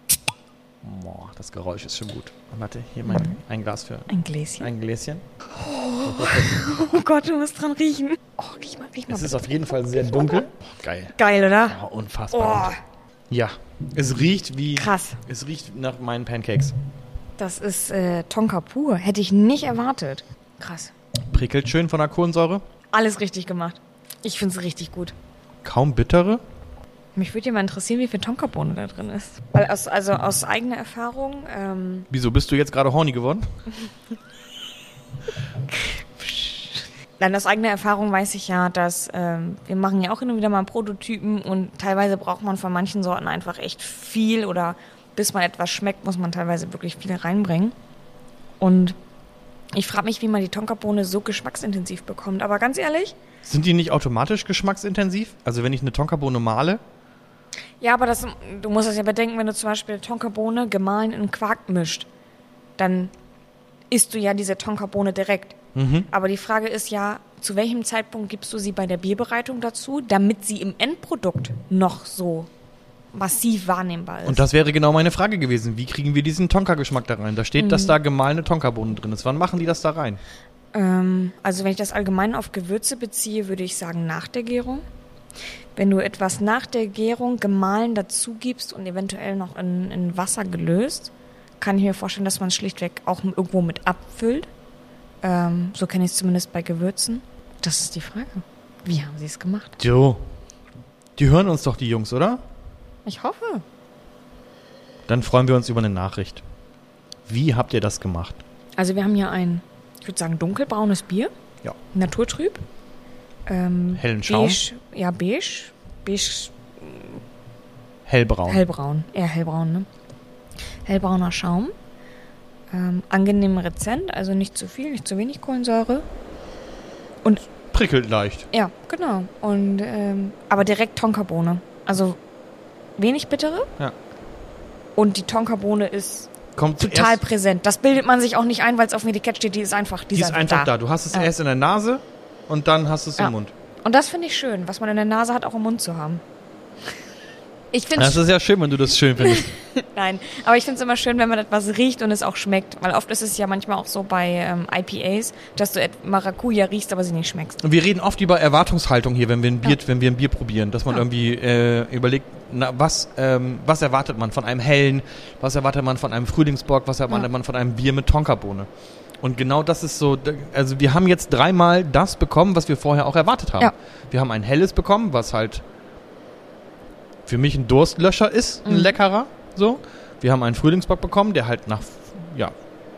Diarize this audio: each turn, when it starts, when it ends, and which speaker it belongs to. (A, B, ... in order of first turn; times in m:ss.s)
0:00.8-0:05.2 A
0:03.1-0:03.4 B
0:04.1-0:04.7 B
0:05.5-0:10.5 B
0:06.0-0:06.8 A
0:09.1-0:11.1 A
0:11.1-0:11.8 B
0:11.7-0:12.7 A
0:12.3-0:12.8 B
0:13.3-0:16.7 A
0:14.8-0:15.2 B
0:17.4-0:20.9 B
0:21.3-0:22.6 A
0:22.9-0:25.1 B
0:25.6-0:26.4 A
0:27.1-0:32.1 B
0:32.1-0:33.5 A
0:35.7-0:47.7 B
0:48.6-0:49.0 B
0:49.7-0:53.2 B
0:53.4-0:56.8 A
0:57.8-1:02.1 B
1:02.8-1:03.1 B
1:03.9-1:12.5 B
1:05.7-1:06.1 A
1:13.1-1:14.4 B
1:14.2-1:20.2 A
1:17.6-1:18.0 B
1:20.7-1:24.8 B
1:25.7-1:34.5 B
1:35.2-1:39.8 B
1:39.8-1:40.2 A
1:41.2-1:42.4 A
1:43.0-1:43.6 B
1:45.1-1:46.4 A
1:47.3-1:48.4 A
1:48.8-1:51.3 B
1:51.9-1:52.6 B
1:53.4-1:57.2 B
1:54.0-1:54.6 A
1:58.0-1:58.6 A
1:58.5-1:59.9 B
2:00.8-2:01.7 B
2:02.7-2:06.0 B
2:07.7-2:08.5 A
2:08.5-2:12.2 B
2:13.0-2:13.7 B
2:15.0-2:21.3 B
2:16.6-2:17.2 A
2:20.1-2:23.5 A
2:23.2-2:26.2 B
2:27.7-2:28.2 B
2:27.9-2:29.5 A
2:29.2-2:37.6 B
2:37.6-2:48.7 A
2:49.2-2:55.6 A
2:57.3-3:02.5 A
2:58.6-2:59.0 B